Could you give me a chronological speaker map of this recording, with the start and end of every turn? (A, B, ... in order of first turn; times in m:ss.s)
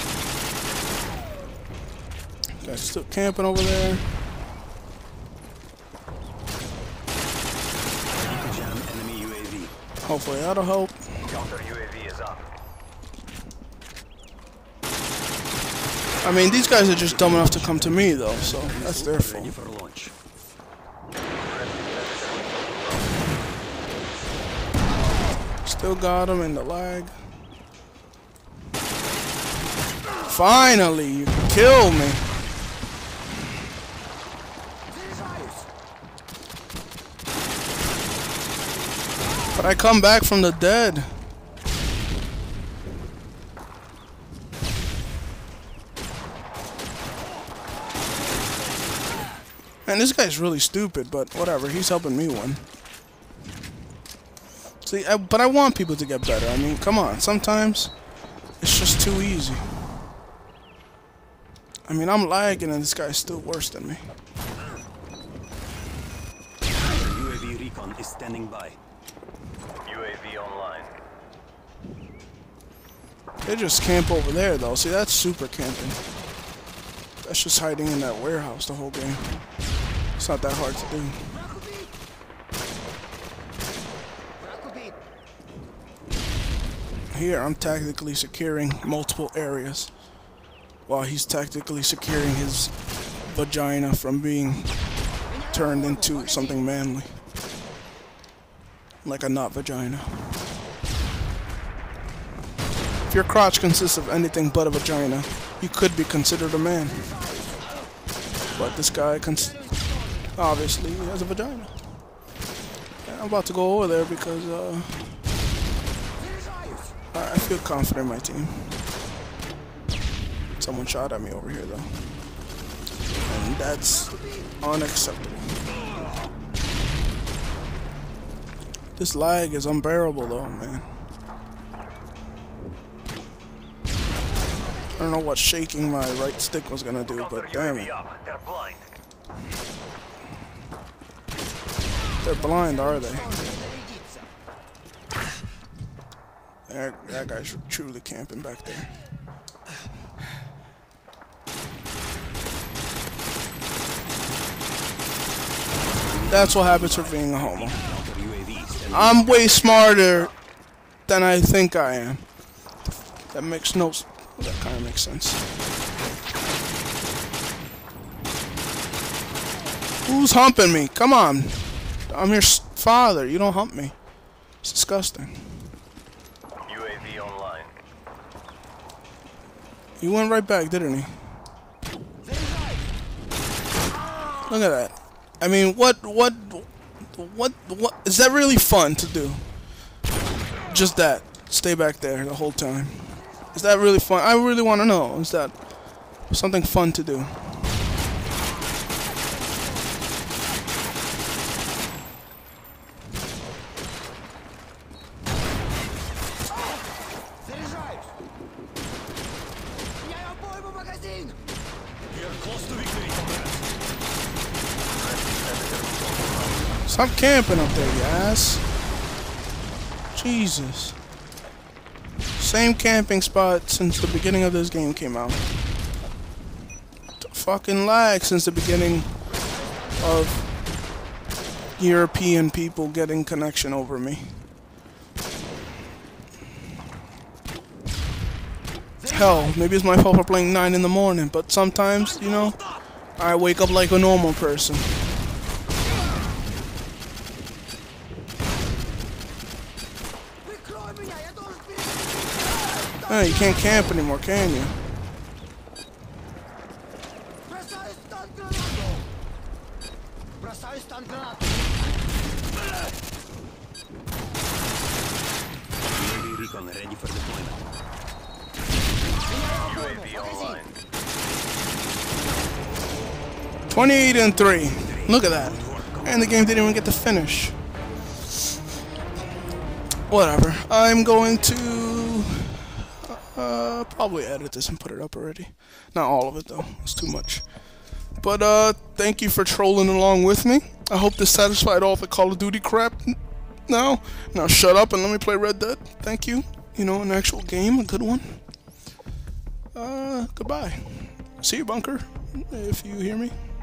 0:02.6-0:04.1 A
0:08.2-0:09.7 B
0:10.0-0:11.2 A
0:11.3-0:12.4 B
0:16.2-0:19.6 A
0:17.0-0:20.1 B
0:21.4-0:23.2 C
0:25.6-0:27.2 A
0:30.2-0:32.3 A
0:35.1-0:35.5 C
0:39.5-0:41.3 A
0:49.8-0:52.7 A
0:54.8-0:57.9 A
0:58.6-1:00.0 A
1:01.8-1:04.1 A
1:06.8-1:08.8 B
1:09.8-1:10.9 C
1:13.4-1:16.0 A
1:17.2-1:19.4 A
1:20.2-1:21.4 A
1:27.1-1:29.9 A
1:30.8-1:34.8 A
1:35.5-1:37.2 A
1:39.0-1:40.3 A
1:43.1-1:47.2 A
1:48.5-1:49.7 A
1:50.3-1:51.9 A
1:53.0-1:55.2 A
1:57.1-1:58.8 A
2:00.5-2:02.0 A
2:03.3-2:05.6 A
2:09.0-2:11.0 A
2:14.9-2:18.0 A
2:17.9-2:18.6 C
2:18.2-2:18.8 B
2:22.2-2:23.7 A
2:26.7-2:28.9 A
2:36.1-2:39.2 B
2:36.3-2:37.8 A
2:38.8-2:40.3 A
2:41.1-2:42.3 A
2:42.8-2:45.5 A
2:50.0-2:53.9 A
2:54.6-2:55.7 A
2:56.6-2:57.7 C
3:00.0-3:01.2 A
3:04.4-3:09.5 A
3:10.7-3:15.5 A
3:16.3-3:17.6 A
3:30.1-3:31.3 C
3:32.1-3:33.6 B
3:35.5-3:36.4 C
3:36.8-3:38.6 A
3:40.1-3:41.0 A
3:42.4-3:45.5 A
3:47.2-3:49.2 A
3:50.0-3:50.5 A
3:51.8-3:54.5 A
3:59.0-4:02.6 A
4:03.2-4:05.1 A
4:10.5-4:12.8 C
4:13.0-4:14.8 A
4:17.6-4:19.0 C
4:20.5-4:21.3 C
4:25.9-4:27.6 B
4:29.4-4:30.7 C
4:33.7-4:37.6 A
4:35.0-4:36.0 B
4:40.1-4:47.4 A
4:48.2-4:58.4 A
4:59.7-5:03.3 A